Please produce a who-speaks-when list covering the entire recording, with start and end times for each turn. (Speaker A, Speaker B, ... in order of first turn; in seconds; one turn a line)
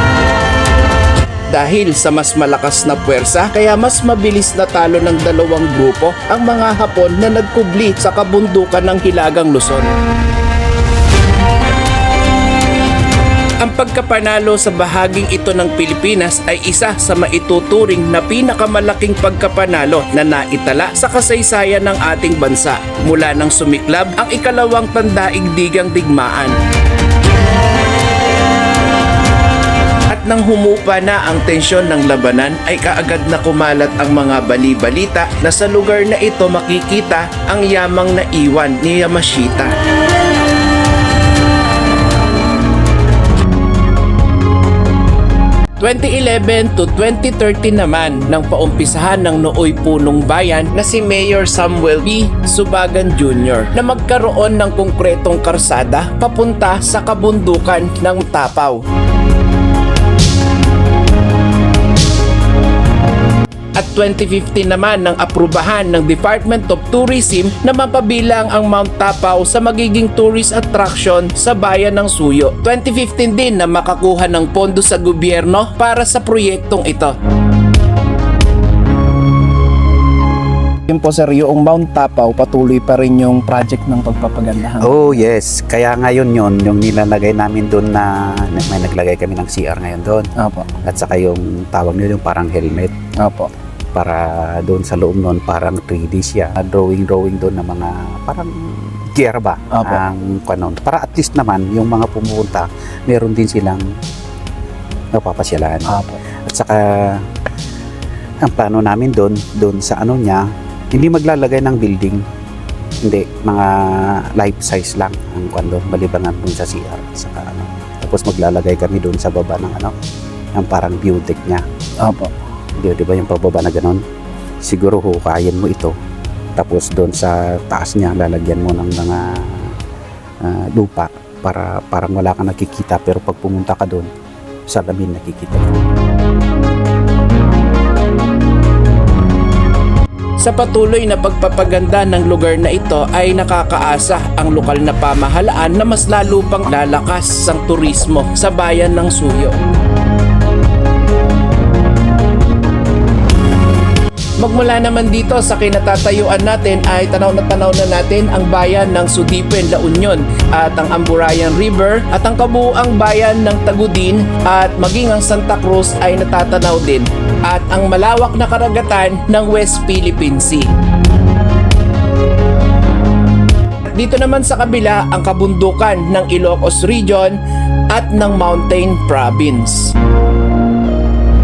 Speaker A: 1.5-9.9
Speaker A: 13.6-26.6
Speaker A: 30.1-39.7
Speaker A: 45.8-58.8
Speaker A: 63.8-77.1
Speaker B: 80.9-85.0
Speaker C: 84.8-90.3
Speaker B: 90.4-90.7
Speaker C: 90.8-92.9
Speaker B: 93.2-93.5
Speaker C: 93.9-103.8
Speaker B: 99.7-100.0
Speaker C: 105.1-107.2
Speaker B: 105.9-106.2
Speaker C: 108.4-112.2
Speaker C: 113.0-119.9
Speaker C: 120.5-121.6
Speaker B: 122.0-122.3
Speaker C: 122.8-124.0
Speaker C: 124.6-125.9
Speaker C: 126.5-129.7
Speaker C: 130.4-134.1
Speaker C: 134.7-135.8
Speaker A: 140.4-149.6
Speaker A: 154.4-170.7
Speaker A: 173.9-177.4
Speaker A: 177.9-179.9